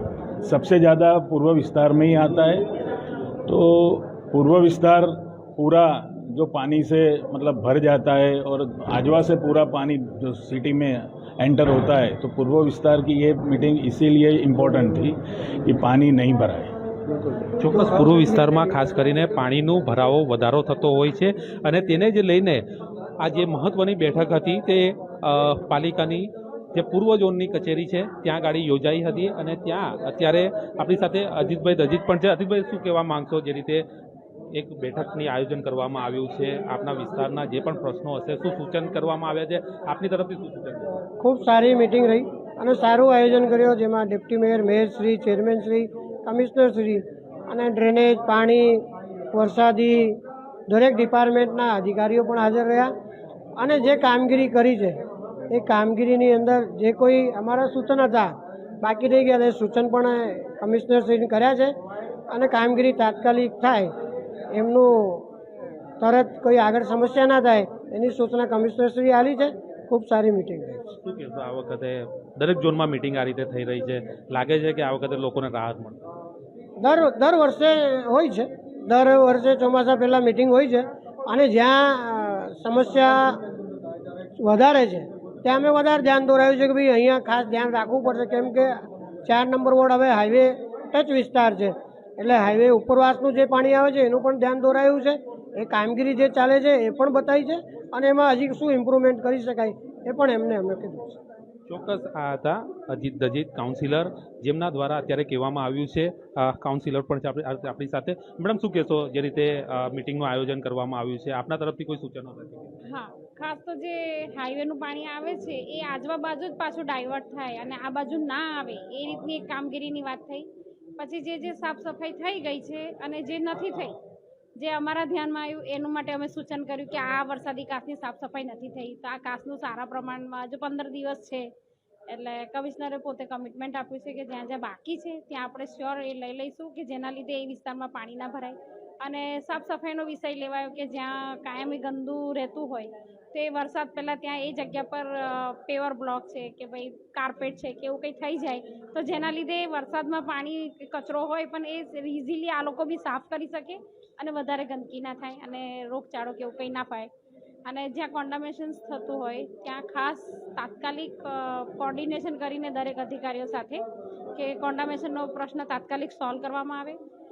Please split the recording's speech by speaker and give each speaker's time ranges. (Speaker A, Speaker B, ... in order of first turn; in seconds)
Speaker A: 0.4-2.7, 3.5-16.7
Speaker B: 17.6-22.6, 23.2-33.8, 34.5-40.9, 71.0-76.0, 101.7-112.8
Speaker C: 41.2-52.9, 53.6-61.7, 62.3-63.9, 64.5-65.3, 66.0-70.8, 76.8-83.4, 84.4-88.7, 89.2-101.2
Speaker D: 112.8-120.5, 121.0-124.0, 124.6-131.5, 132.1-157.1, 157.6-163.8, 164.3-167.0